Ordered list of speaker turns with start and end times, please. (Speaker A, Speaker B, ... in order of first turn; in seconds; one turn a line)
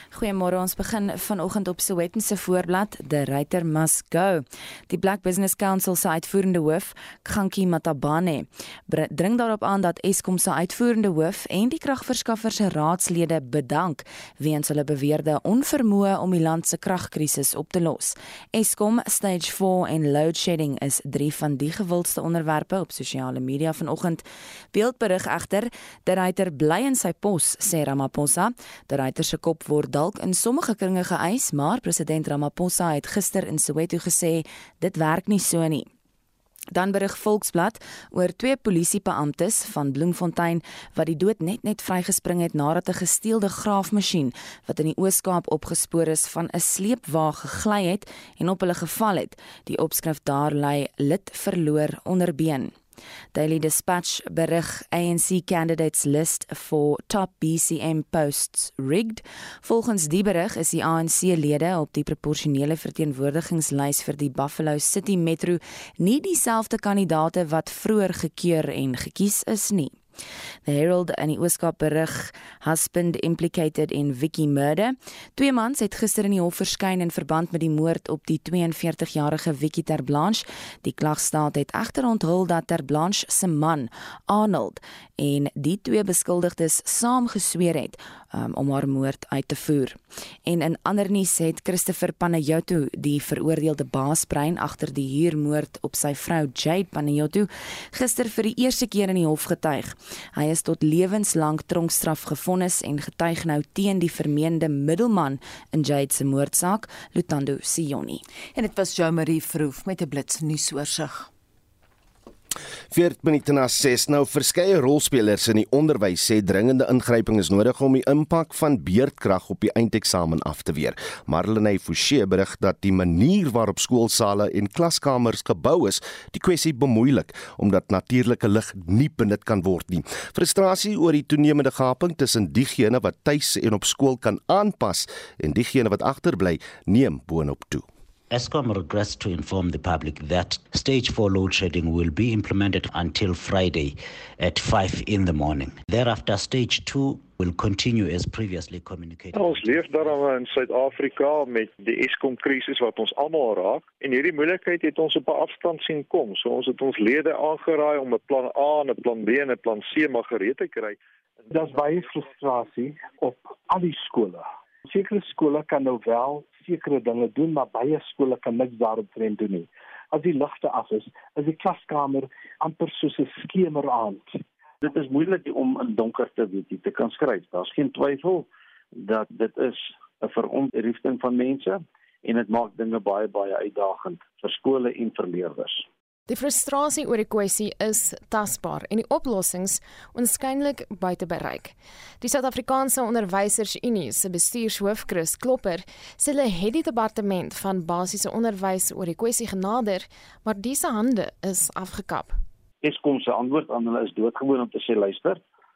Speaker A: 0.1-35.9
Speaker A: 36.7-52.7
Speaker A: 53.3-70.0
Speaker A: 70.6-108.2
Speaker B: 108.5-111.3
Speaker C: 112.9-137.8
Speaker D: 138.3-149.8
Speaker E: 149.3-161.0
Speaker F: 161.5-174.4
Speaker G: 174.8-185.9
Speaker H: 186.3-202.3
Speaker G: 202.8-205.4